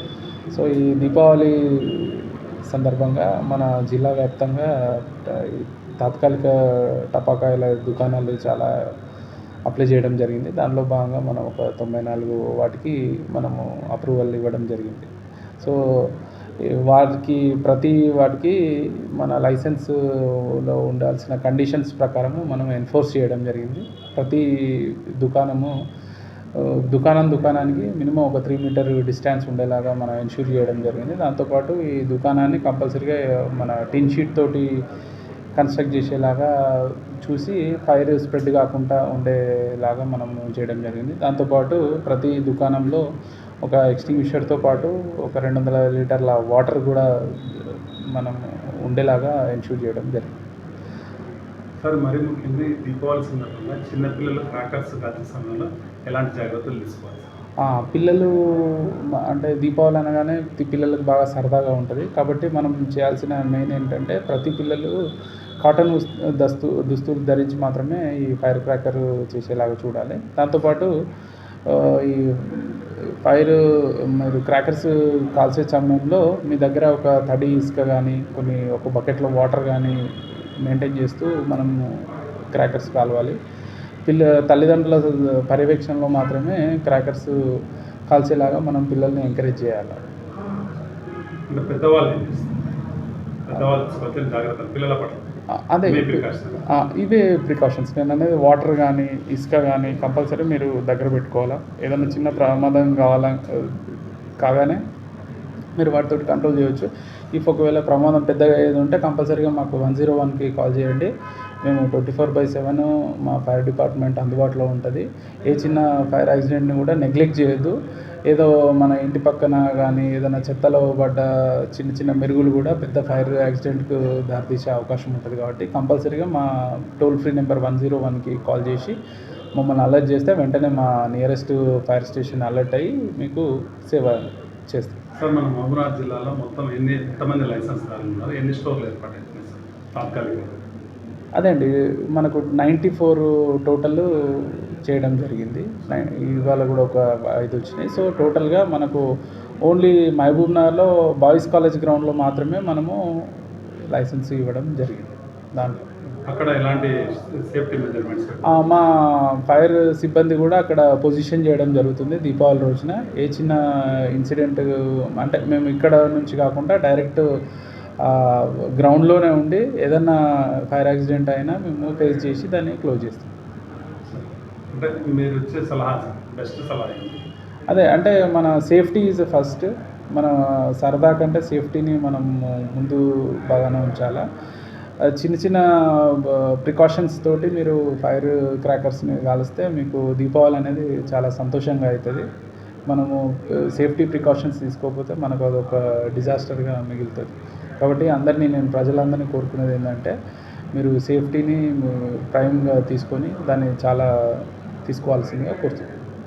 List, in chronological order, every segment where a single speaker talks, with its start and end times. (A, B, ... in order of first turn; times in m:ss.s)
0:00.5-0:08.7 A
0:09.7-0:15.1 A
0:15.6-0:16.1 A
0:16.7-0:18.6 A
0:19.1-0:25.7 A
0:26.6-0:34.7 A
0:35.6-0:43.0 A
0:43.6-0:50.4 A
0:51.8-0:57.3 B
0:57.6-1:05.0 A
1:05.6-1:10.9 A
1:11.7-1:13.6 A
1:14.1-1:20.1 A
1:20.6-1:23.4 A
1:24.1-1:27.4 A
1:28.1-1:30.0 A
1:31.5-1:32.5 B
1:33.5-1:35.3 B
1:35.7-1:44.8 A
1:35.9-1:36.6 B
1:45.8-1:51.1 A
1:51.6-1:57.8 A
1:58.3-2:06.5 A
2:07.0-2:09.0 A
2:09.6-2:15.0 A
2:15.2-2:20.6 B
2:21.4-2:29.0 A
2:29.7-2:33.0 A
2:33.9-2:35.8 A
2:36.3-2:38.6 B
2:38.5-2:43.6 A
2:44.1-2:47.2 A
2:48.0-2:53.3 A
2:54.1-2:57.2 B
2:57.7-3:04.2 A
3:05.1-3:12.3 A
3:12.9-3:20.1 A
3:20.8-3:24.1 A
3:24.9-3:25.9 A